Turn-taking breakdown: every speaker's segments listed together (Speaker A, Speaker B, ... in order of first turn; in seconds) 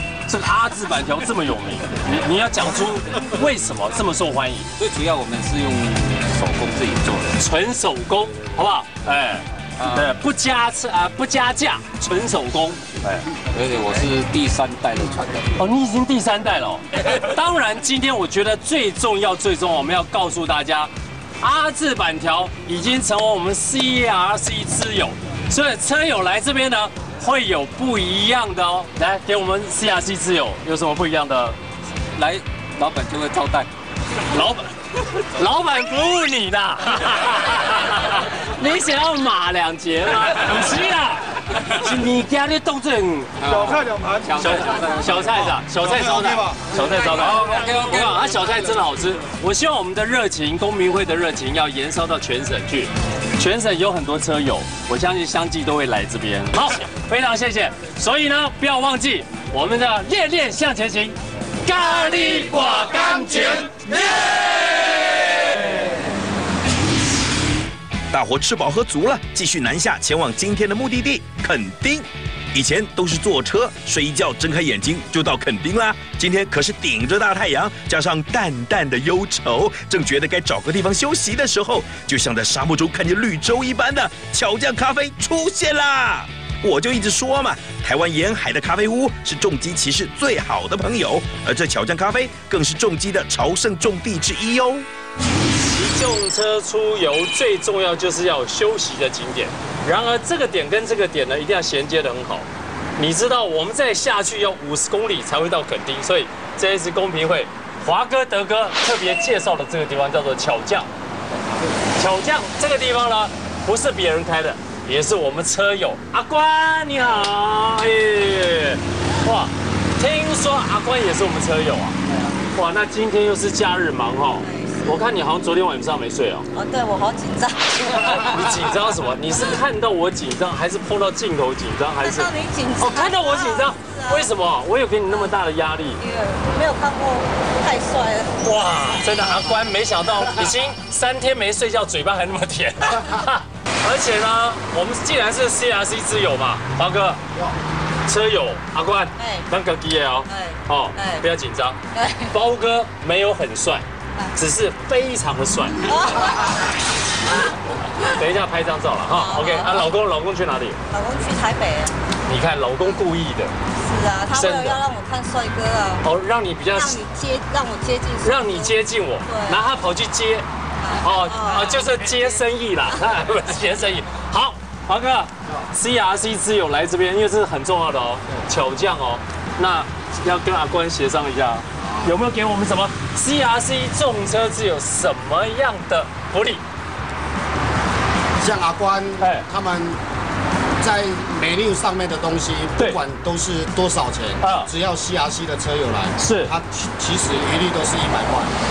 Speaker A: 0.3-4.7, 7.3-13.2, 15.6-20.9, 21.4-31.6, 34.3-34.7, 35.2-43.8, 44.4-63.7, 95.7-110.9, 112.0-122.0, 122.5-126.5, 128.0-136.0, 138.4-147.2, 148.1-151.8, 152.3-153.8, 154.3-155.9, 158.1-160.8, 162.3-163.5, 164.3-164.8, 166.0-167.0, 168.2-170.4, 171.0-186.6, 189.2-189.4, 194.4-194.7, 196.2-196.5
Speaker B: 4.8-7.3, 9.8-10.1, 13.5-15.6, 32.1-33.7, 43.4-45.5, 46.9-48.5
Speaker C: 68.1-94.9
Speaker D: 124.4-125.0, 126.5-128.4, 132.0-134.3, 136.0-138.4, 149.2-149.5, 150.3-151.2, 151.9-152.3, 155.9-156.6, 159.1-159.9, 160.9-161.9, 163.8-166.1, 166.7-169.6, 170.8-171.8
Speaker E: 188.4-189.9, 190.8-198.5